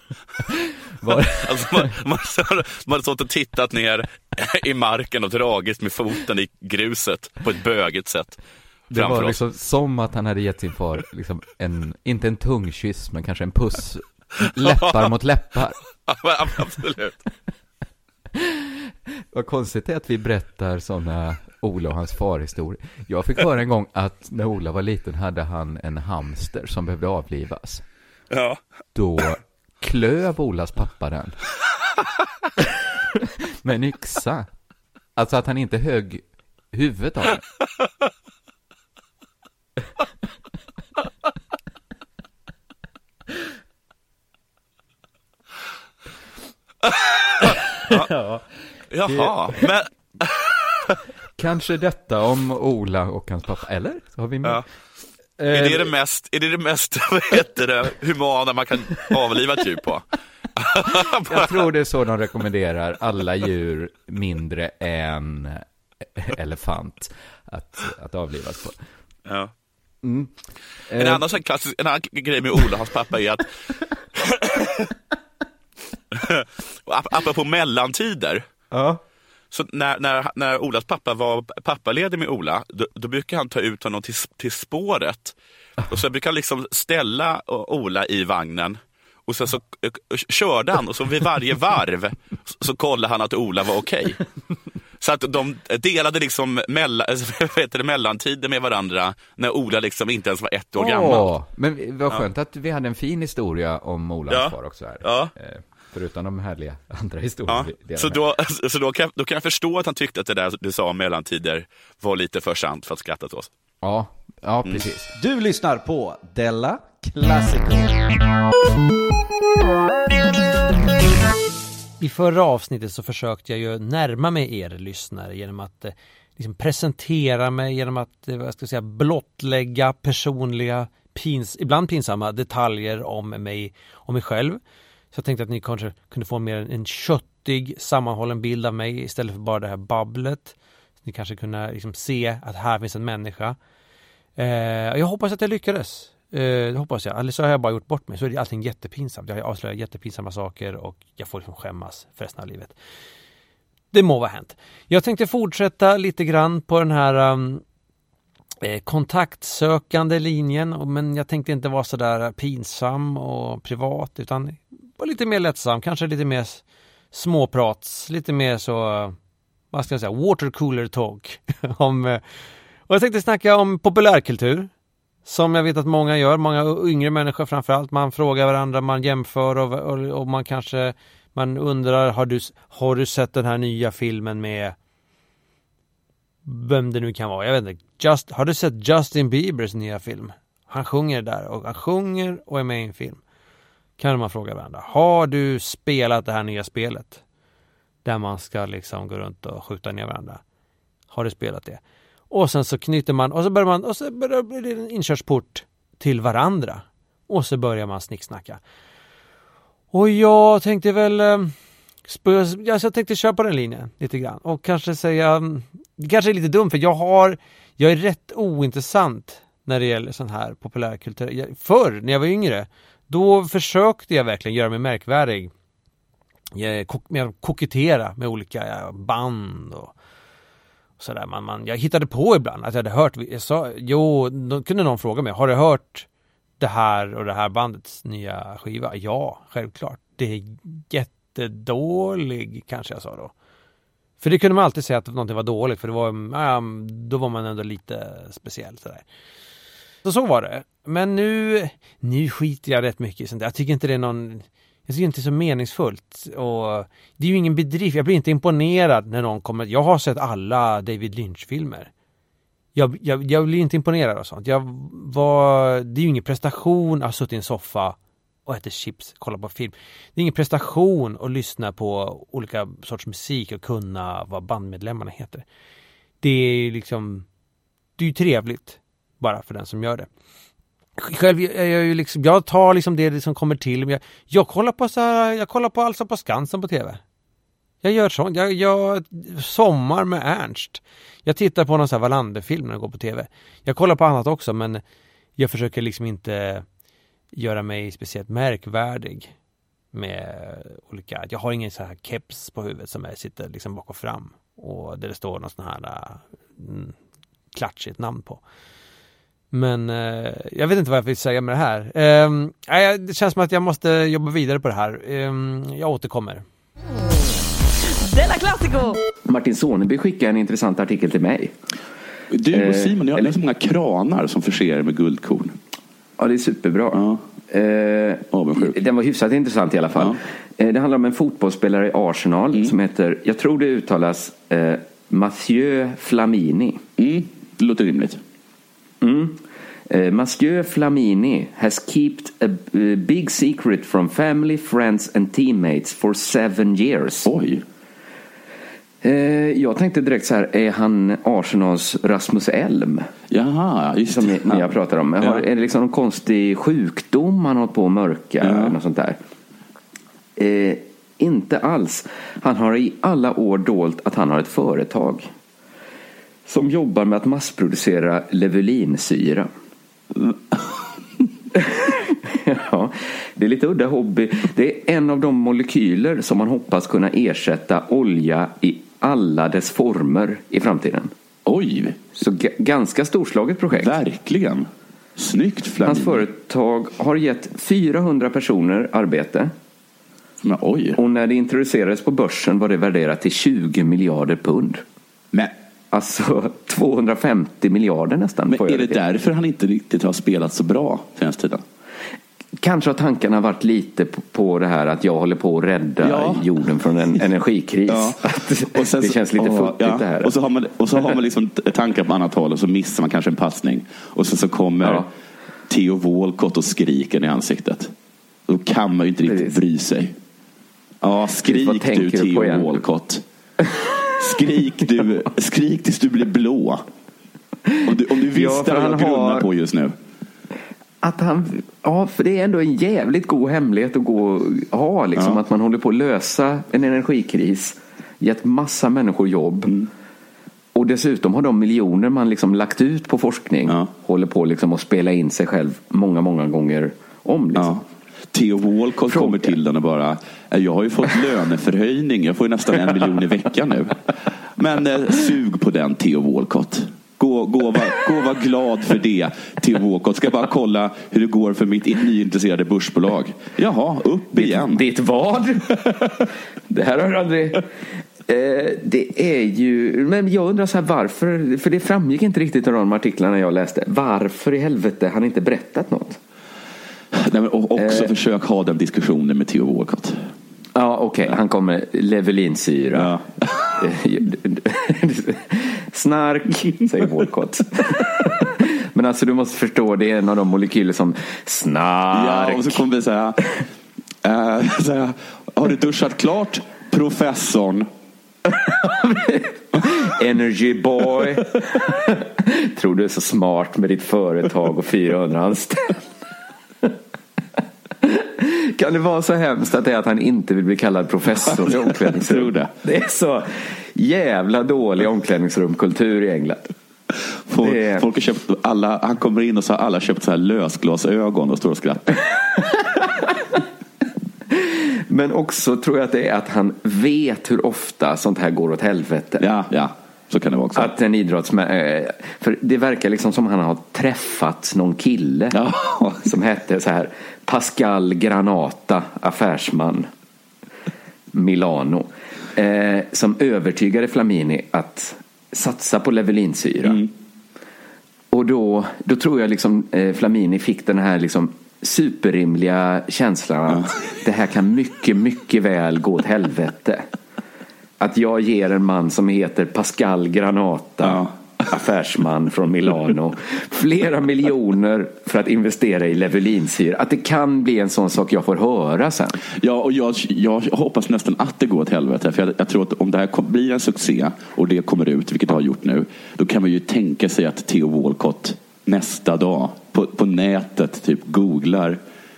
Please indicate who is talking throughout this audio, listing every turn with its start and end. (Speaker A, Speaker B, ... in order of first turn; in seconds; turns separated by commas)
Speaker A: 1.0-1.9, Speaker B: 1.1-8.4, Speaker A: 8.9-15.8, Speaker B: 8.9-9.4, Speaker B: 14.6-15.0, Speaker B: 16.1-17.2, Speaker A: 19.3-27.8, Speaker B: 28.3-28.6, Speaker A: 28.9-31.4, Speaker A: 33.6-34.5, Speaker A: 35.2-37.4, Speaker B: 46.8-48.1, Speaker B: 48.9-50.4, Speaker A: 49.1-49.6, Speaker A: 51.4-54.6, Speaker B: 55.5-60.0, Speaker A: 55.5-55.9, Speaker B: 60.6-61.6, Speaker A: 61.3-65.6, Speaker A: 66.2-68.8, Speaker A: 70.0-70.3, Speaker A: 70.9-71.3, Speaker B: 71.0-73.5, Speaker B: 74.2-74.9, Speaker B: 76.1-78.5, Speaker A: 78.7-79.0, Speaker B: 79.5-85.3, Speaker B: 85.9-94.2, Speaker B: 95.0-101.3, Speaker A: 100.8-108.2, Speaker B: 104.3-105.3, Speaker B: 107.5-113.5, Speaker A: 113.8-115.1, Speaker C: 115.2-118.0, Speaker D: 122.0-134.6, Speaker D: 135.1-143.6, Speaker D: 144.4-152.8, Speaker D: 153.9-157.6, Speaker D: 158.6-169.2, Speaker D: 169.7-172.2, Speaker D: 172.9-174.7, Speaker D: 175.2-184.8, Speaker D: 186.4-193.2, Speaker D: 194.0-197.2, Speaker D: 198.0-200.4, Speaker D: 201.1-208.6, Speaker D: 209.9-211.5, Speaker D: 212.1-225.5, Speaker D: 226.6-229.9, Speaker D: 231.0-236.1, Speaker D: 236.6-243.3, Speaker D: 244.2-249.1, Speaker D: 250.0-261.9, Speaker D: 262.8-275.4, Speaker D: 276.2-277.3, Speaker D: 278.0-280.1, Speaker D: 281.0-287.0, Speaker D: 287.8-294.8, Speaker D: 295.4-296.6, Speaker D: 297.3-299.3, Speaker D: 299.9-307.0, Speaker D: 307.5-308.4, Speaker D: 309.5-316.4, Speaker E: 316.9-319.0, Speaker A: 319.3-321.5, Speaker B: 322.3-325.6, Speaker A: 322.5-323.3, Speaker A: 326.2-336.8, Speaker B: 326.9-327.2, Speaker B: 328.3-328.8, Speaker B: 337.0-338.2, Speaker A: 339.0-347.3, Speaker B: 347.2-347.6, Speaker A: 349.0-353.1, Speaker B: 353.3-355.4, Speaker A: 354.1-359.2, Speaker B: 358.4-358.8, Speaker A: 360.4-365.3, Speaker A: 366.5-369.5, Speaker A: 371.6-381.1, Speaker B: 381.5-382.0, Speaker A: 382.2-383.9, Speaker B: 383.8-386.2, Speaker A: 385.9-389.5, Speaker B: 390.4-391.0, Speaker A: 391.0-394.8, Speaker A: 395.9-399.0, Speaker B: 398.5-401.6, Speaker A: 402.6-410.3, Speaker B: 406.0-406.4, Speaker B: 407.9-415.1, Speaker B: 415.7-417.9, Speaker B: 418.5-420.1, Speaker A: 419.3-419.6, Speaker B: 421.0-423.2, Speaker A: 421.4-422.9, Speaker B: 424.2-426.8, Speaker B: 427.8-429.9, Speaker A: 428.3-429.5, Speaker A: 431.0-439.7, Speaker A: 440.8-447.8, Speaker B: 447.6-447.8, Speaker B: 448.3-454.0, Speaker A: 449.1-449.6, Speaker B: 454.6-464.8, Speaker A: 464.4-466.1, Speaker A: 466.7-467.7, Speaker A: 468.3-476.2, Speaker B: 477.1-480.2, Speaker A: 477.8-478.1, Speaker A: 480.8-483.1, Speaker B: 482.9-483.7, Speaker A: 483.8-492.8, Speaker B: 492.1-493.4, Speaker B: 494.2-497.9, Speaker A: 498.8-506.0, Speaker A: 508.0-516.7, Speaker B: 511.6-512.7, Speaker B: 517.5-522.3, Speaker A: 517.6-518.0, Speaker A: 524.5-529.5, Speaker B: 529.4-530.9, Speaker A: 530.8-535.6, Speaker B: 535.5-536.2, Speaker A: 536.2-540.1, Speaker A: 541.3-547.0, Speaker A: 548.3-557.0, Speaker A: 558.0-569.4, Speaker B: 561.0-561.3, Speaker B: 569.6-582.0